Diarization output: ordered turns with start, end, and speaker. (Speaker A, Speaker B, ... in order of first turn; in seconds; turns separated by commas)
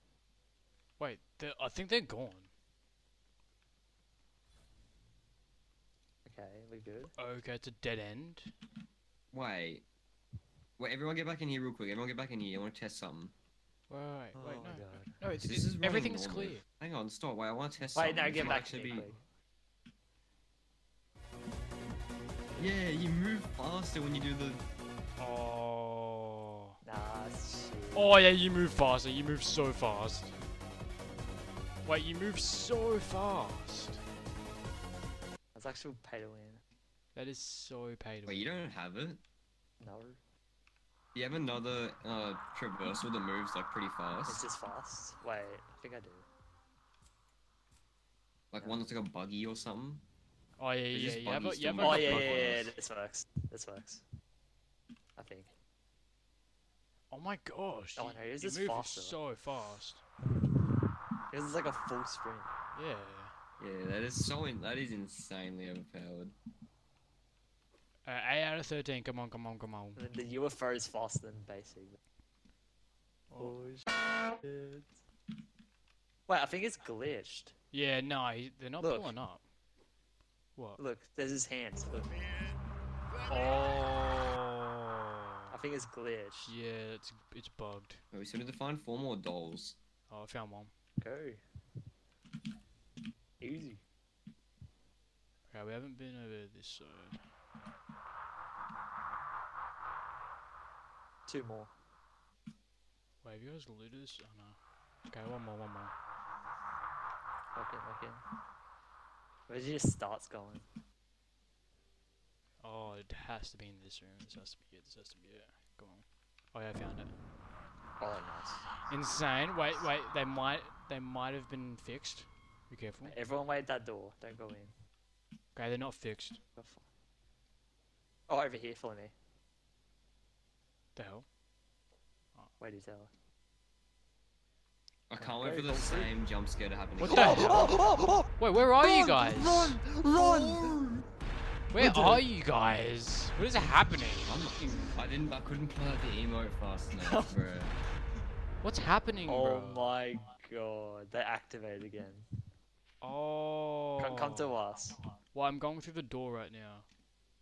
Speaker A: 1.0-2.5, Speaker B: 6.2-7.1, Speaker A: 7.2-8.5, Speaker C: 9.3-9.8, Speaker C: 10.8-13.3, Speaker A: 13.9-16.6, Speaker B: 14.3-15.2, Speaker C: 15.4-19.1, Speaker B: 17.9-19.2, Speaker A: 18.4-19.0, Speaker C: 22.6-24.6, Speaker A: 25.2-26.7, Speaker B: 26.8-28.2, Speaker A: 27.9-30.4, Speaker A: 31.8-34.0, Speaker B: 35.5-36.6, Speaker A: 37.1-38.5, Speaker C: 38.2-39.2, Speaker B: 39.8-40.2, Speaker C: 41.1-44.4, Speaker B: 44.2-46.2, Speaker C: 48.5-50.0, Speaker B: 48.6-48.8, Speaker A: 50.6-52.7, Speaker C: 50.9-52.7, Speaker B: 51.8-54.0, Speaker B: 55.1-55.5, Speaker A: 57.1-60.0, Speaker B: 58.0-59.2, Speaker B: 61.3-62.5, Speaker A: 62.7-63.3, Speaker C: 63.6-66.3, Speaker A: 68.0-70.0, Speaker B: 70.0-72.0, Speaker A: 73.3-73.5, Speaker B: 73.3-74.8, Speaker B: 76.3-77.5, Speaker A: 77.7-79.4, Speaker B: 78.8-79.1, Speaker B: 80.8-82.1, Speaker A: 83.3-85.0, Speaker B: 85.5-86.5, Speaker A: 86.5-88.0, Speaker C: 88.1-89.8, Speaker A: 90.1-90.7, Speaker B: 91.0-91.4, Speaker B: 93.4-93.8, Speaker A: 95.5-97.2, Speaker B: 101.3-101.7, Speaker A: 103.2-104.6, Speaker A: 105.1-105.9, Speaker B: 107.5-108.2, Speaker B: 109.5-110.7, Speaker A: 112.6-117.1, Speaker B: 118.0-118.6, Speaker A: 118.9-123.2, Speaker B: 123.0-124.7, Speaker A: 125.5-126.4, Speaker B: 126.5-126.8, Speaker B: 128.3-129.1, Speaker A: 130.9-131.2, Speaker B: 132.6-133.1, Speaker C: 135.1-137.8, Speaker B: 135.2-136.1, Speaker B: 137.0-138.3, Speaker A: 137.0-137.8, Speaker A: 138.4-139.8, Speaker B: 138.9-140.9, Speaker C: 139.1-139.4, Speaker C: 140.1-141.0, Speaker A: 141.7-144.9, Speaker B: 141.8-142.2, Speaker C: 144.2-147.7, Speaker B: 146.9-147.5, Speaker A: 148.6-149.9, Speaker B: 149.2-152.2, Speaker A: 153.0-154.5, Speaker B: 154.0-155.0, Speaker A: 155.3-156.8